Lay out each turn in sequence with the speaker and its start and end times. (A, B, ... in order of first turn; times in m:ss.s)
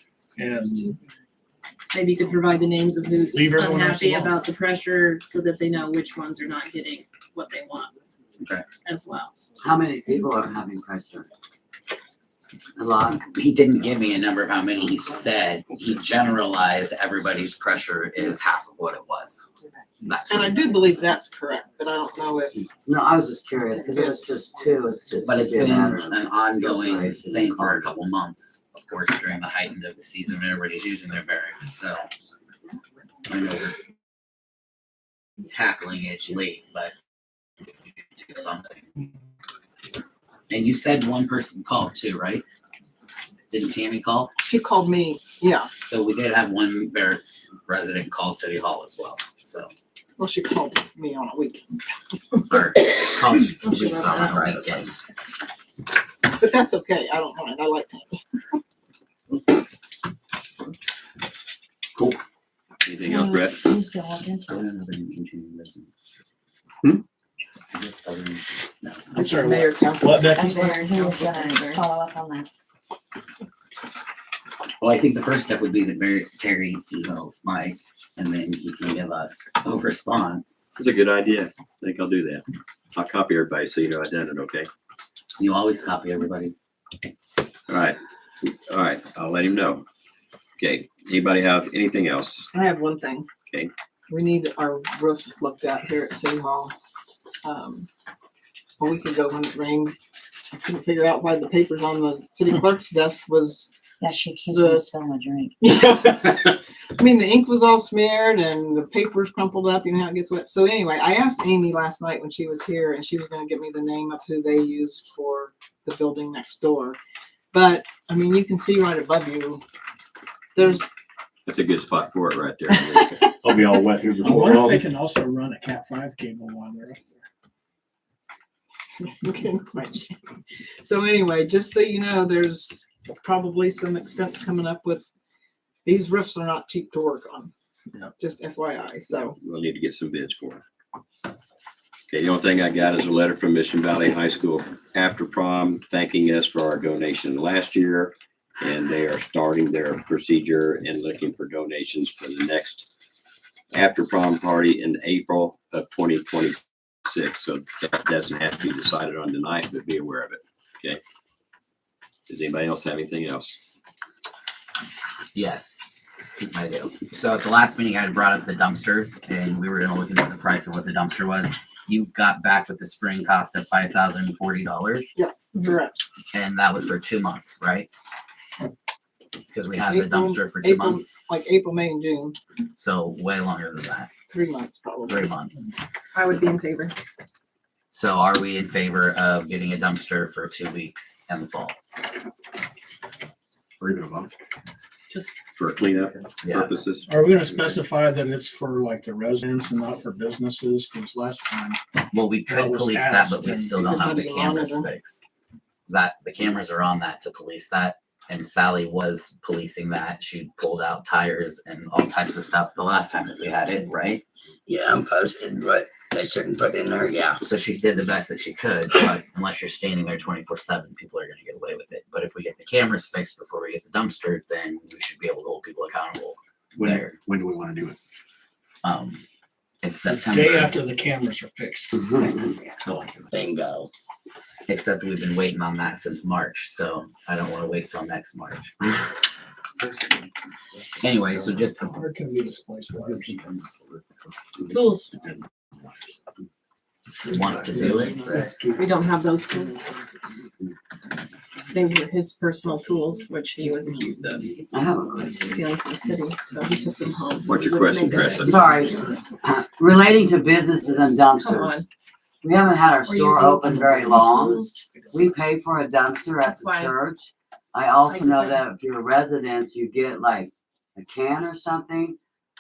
0:00.4-0:01.0 A
0:01.9-0:07.9 B
0:03.3-0:04.4 A
0:08.4-0:08.7 C
0:08.8-0:09.3 B
0:09.6-0:11.3 D
0:12.8-0:13.2 D
0:13.3-0:19.4 C
0:20.0-0:20.9 C
0:20.3-0:22.6 E
0:22.5-0:27.9 D
0:23.7-0:24.4 E
0:25.2-0:32.1 C
0:33.3-0:33.8 C
0:35.5-0:36.9 C
0:38.2-0:38.8 C
0:40.5-0:42.4 C
0:43.5-0:44.3 C
0:44.4-0:45.7 E
0:45.8-0:49.7 C
0:50.2-0:51.7 E
0:52.5-0:54.9 C
0:53.6-0:54.4 E
0:56.3-0:58.2 E
1:02.8-1:03.7 F
1:03.1-1:04.6 G
1:04.5-1:05.9 C
1:07.7-1:09.1 C
1:09.1-1:10.4 E
1:09.1-1:10.5 A
1:10.3-1:12.5 G
1:10.4-1:11.9 B
1:14.8-1:20.7 C
1:20.8-1:24.7 F
1:25.4-1:26.5 C
1:27.7-1:29.8 F
1:30.6-1:32.5 F
1:32.5-1:33.3 E
1:34.1-1:36.7 E
1:37.4-1:37.9 E
1:38.8-1:39.9 E
1:40.5-1:43.8 E
1:44.0-1:45.5 G
1:44.5-1:44.8 E
1:45.6-1:57.0 E
1:57.5-1:59.6 E
2:00.5-2:00.8 E
2:01.4-2:03.2 F
2:03.4-2:04.9 H
2:04.2-2:07.0 A
2:09.0-2:10.2 E
2:10.8-2:15.0 E
2:15.8-2:17.5 E
2:18.2-2:19.4 E
2:19.4-2:20.6 F
2:22.1-2:32.9 F
2:33.7-2:41.0 F
2:42.3-2:43.6 F
2:45.3-2:45.8 C
2:46.4-2:55.1 C
2:55.2-2:56.0 E
2:56.3-2:57.9 C
2:59.5-3:01.1 C
2:59.8-3:02.4 E
3:02.8-3:04.1 C
3:04.3-3:05.3 E
3:05.0-3:05.5 C
3:06.1-3:06.9 B
3:07.9-3:11.8 C
3:13.8-3:14.4 H
3:15.5-3:17.1 F
3:16.4-3:16.7 C
3:17.1-3:21.8 A
3:22.1-3:25.2 C
3:22.5-3:24.0 A
3:23.8-3:24.9 E
3:25.9-3:34.2 C
3:34.6-3:37.4 I
3:37.4-3:47.2 C
3:46.7-3:48.0 H
3:48.8-3:49.2 C
3:49.8-3:50.8 C
3:50.0-3:51.9 A
3:52.8-3:53.3 H
3:53.3-3:53.9 I
3:54.7-3:59.0 C
4:01.0-4:01.9 C
4:01.3-4:03.5 A
4:04.7-4:05.1 B
4:05.2-4:06.1 H
4:07.3-4:08.2 C
4:07.4-4:08.8 A
4:07.4-4:08.5 H
4:08.7-4:09.8 B
4:11.7-4:14.5 B
4:14.7-4:15.6 D
4:15.4-4:17.2 E
4:16.5-4:19.2 B
4:17.5-4:18.8 F
4:18.4-4:21.8 D
4:21.4-4:21.8 B
4:22.4-4:32.2 D
4:23.0-4:24.9 B
4:26.4-4:26.9 B
4:28.1-4:28.6 B